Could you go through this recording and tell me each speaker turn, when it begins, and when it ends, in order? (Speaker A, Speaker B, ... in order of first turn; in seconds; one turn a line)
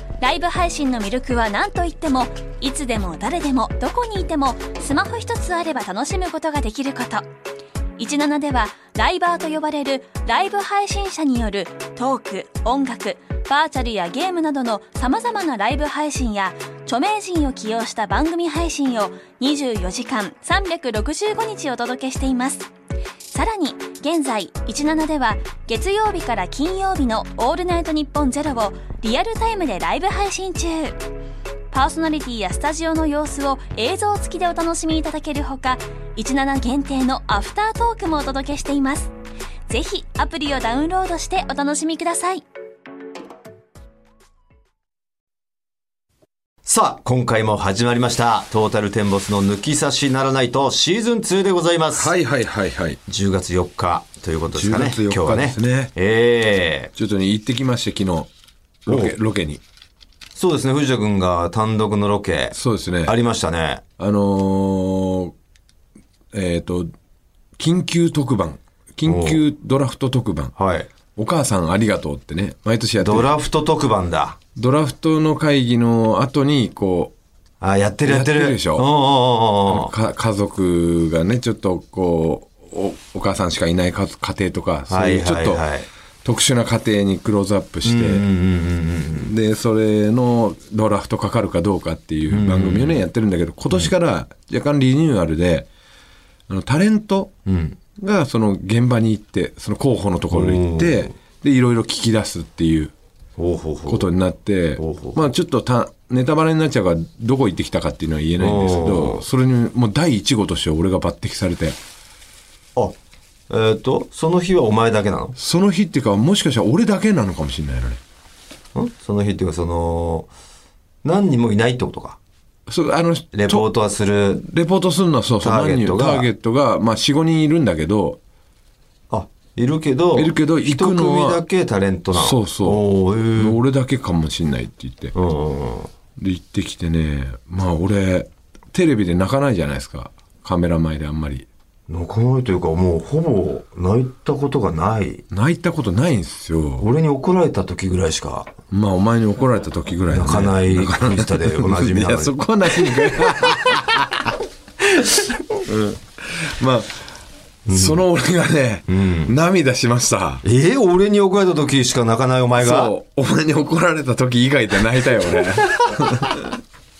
Speaker A: 0.2-7.2
Speaker A: 8.0-22.7
Speaker A: 23.3-31.0
Speaker A: 31.7-39.1
Speaker A: 39.7-42.4
Speaker B: 46.6-52.1
Speaker C: 52.0-53.0
Speaker B: 53.1-56.9
Speaker C: 54.5-55.9
Speaker C: 57.0-58.3
Speaker C: 58.9-59.6
Speaker B: 58.9-59.1
Speaker B: 60.4-63.8
Speaker C: 62.5-63.1
Speaker C: 64.0-65.3
Speaker C: 66.3-66.9
Speaker C: 67.6-70.5
Speaker B: 69.0-69.4
Speaker B: 70.6-70.9
Speaker C: 71.2-73.3
Speaker B: 73.0-74.4
Speaker C: 74.5-77.1
Speaker B: 77.6-79.9
Speaker C: 78.0-78.8
Speaker C: 79.7-85.6
Speaker B: 84.9-85.9
Speaker C: 86.2-88.2
Speaker B: 87.8-89.3
Speaker C: 89.2-95.7
Speaker B: 92.3-93.0
Speaker C: 96.5-97.3
Speaker B: 97.5-97.8
Speaker C: 98.0-102.9
Speaker B: 100.3-101.1
Speaker B: 103.4-104.1
Speaker C: 103.9-111.8
Speaker B: 104.8-105.2
Speaker B: 108.4-109.2
Speaker B: 113.5-115.3
Speaker C: 115.4-118.0
Speaker B: 118.7-120.3
Speaker B: 121.0-122.2
Speaker C: 122.7-123.7
Speaker B: 123.3-124.4
Speaker C: 124.4-128.2
Speaker B: 125.4-126.3
Speaker B: 129.1-133.6
Speaker C: 130.1-131.4
Speaker C: 132.1-135.1
Speaker B: 135.1-135.9
Speaker C: 136.2-141.5
Speaker B: 141.9-145.2
Speaker C: 145.3-146.8
Speaker B: 146.8-148.5
Speaker C: 148.7-154.2
Speaker B: 150.1-153.8
Speaker C: 155.7-157.0
Speaker B: 157.7-158.0
Speaker C: 157.7-160.4
Speaker B: 158.9-159.3
Speaker B: 160.4-162.9
Speaker C: 162.6-166.4
Speaker B: 165.6-166.3